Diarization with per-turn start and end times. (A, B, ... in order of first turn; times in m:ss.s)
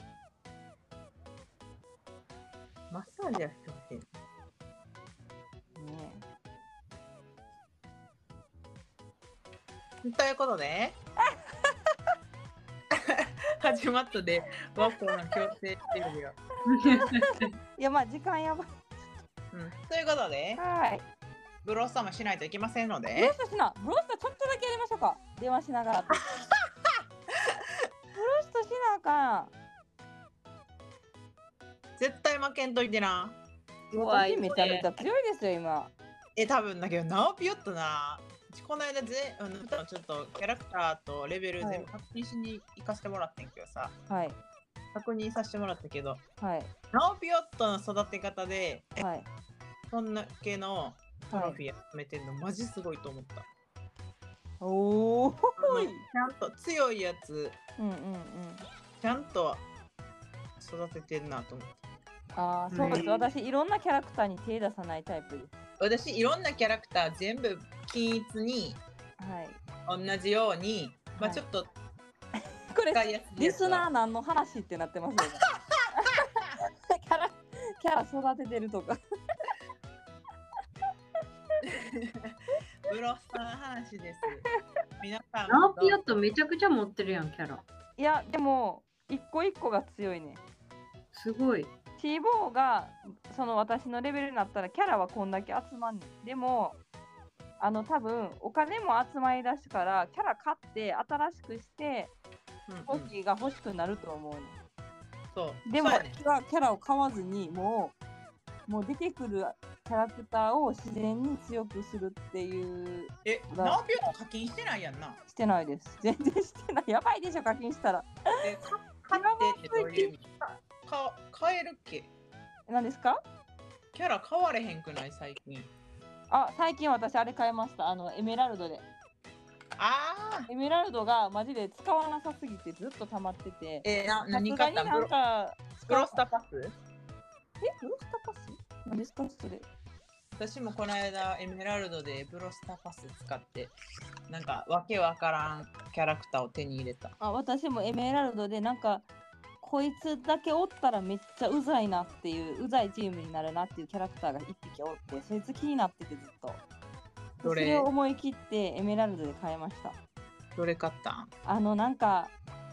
0:02.9-0:04.1 A
0:05.8-0:06.2 B
0:10.0-0:11.0 A
0:12.9-0:16.4 A
0:16.6-0:17.5 C
0:16.7-0:18.9 B
0:19.5-0:20.6 A
0:20.6-0:21.0 B
0:21.6-0:23.4 A
0:23.2-0:26.3 B
0:26.1-0:27.6 A
0:28.1-0:29.5 B
0:32.0-0:33.4 A
0:33.9-0:35.9 B
0:33.9-0:34.9 C
0:36.4-0:44.0 A
0:41.6-0:41.9 B
0:44.1-0:44.4 B
0:44.9-0:46.2 A
0:46.4-0:46.7 B
0:46.9-0:49.0 A
0:49.0-0:49.3 B
0:49.9-0:53.5 A
0:51.3-0:51.6 B
0:54.6-0:56.0 B
0:55.6-0:57.6 A
0:57.8-0:58.7 B
0:59.0-0:59.7 A
1:00.6-1:01.8 A
1:02.4-1:05.5 B
1:02.7-1:03.0 C
1:02.8-1:03.3 A
1:05.8-1:08.8 A
1:09.2-1:09.6 B
1:09.9-1:11.7 A
1:11.2-1:11.4 B
1:12.7-1:15.5 B
1:12.9-1:13.9 A
1:16.0-1:19.0 B
1:21.6-1:24.5 A
1:25.0-1:26.0 A
1:25.5-1:27.6 C
1:28.0-1:30.4 B
1:31.1-1:31.7 C
1:32.0-1:36.8 B
1:37.6-1:42.1 B
1:42.7-1:43.1 A
1:42.9-1:44.6 B
1:45.3-1:46.2 A
1:45.7-1:48.0 B
1:48.7-1:53.8 B
1:53.2-1:55.2 A
1:55.3-1:58.4 B
1:58.4-2:02.1 A
1:59.1-2:00.1 B
2:02.7-2:03.2 B
2:03.9-2:05.7 A
2:06.3-2:08.8 B
2:09.8-2:10.5 A
2:10.5-2:16.2 B
2:13.8-2:15.1 A
2:15.9-2:16.7 A
2:17.6-2:19.7 B
2:20.3-2:23.7 A
2:24.3-2:27.1 A
2:27.2-2:29.1 B
2:29.6-2:36.6 B
2:37.4-2:37.9 A
2:37.4-2:40.0 B
2:40.6-2:41.3 A
2:41.4-2:42.3 B